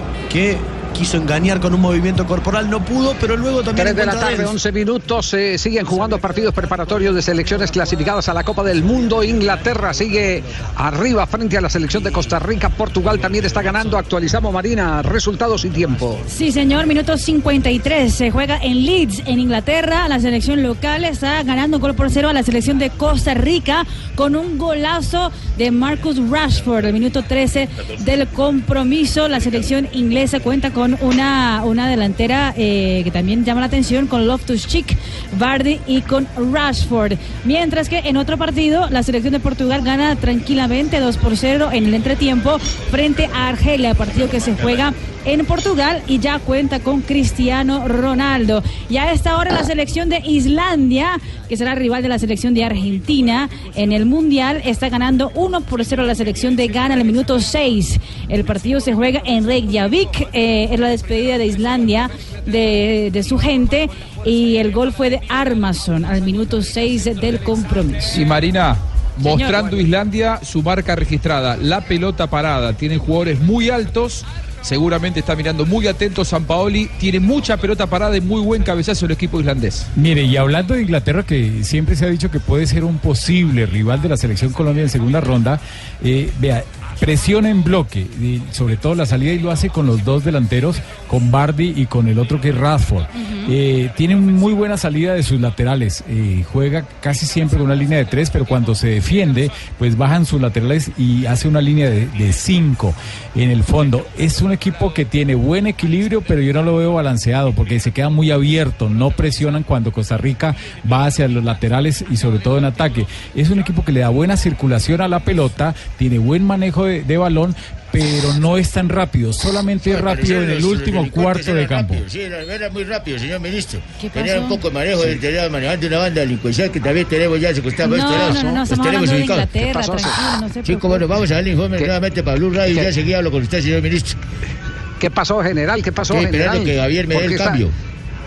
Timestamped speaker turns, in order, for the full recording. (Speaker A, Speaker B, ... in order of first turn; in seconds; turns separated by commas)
Speaker A: 0.3-4.4, Speaker B: 3.8-16.2, Speaker C: 16.3-68.2, Speaker D: 68.1-79.9, Speaker C: 69.2-69.7, Speaker E: 80.0-122.0, Speaker C: 93.2-93.5, Speaker F: 119.8-129.5, Speaker C: 124.0-124.6, Speaker C: 127.8-131.1, Speaker B: 128.1-128.4, Speaker B: 129.6-130.2, Speaker F: 130.6-134.1, Speaker B: 132.7-132.9, Speaker B: 135.0-137.6, Speaker F: 136.1-137.7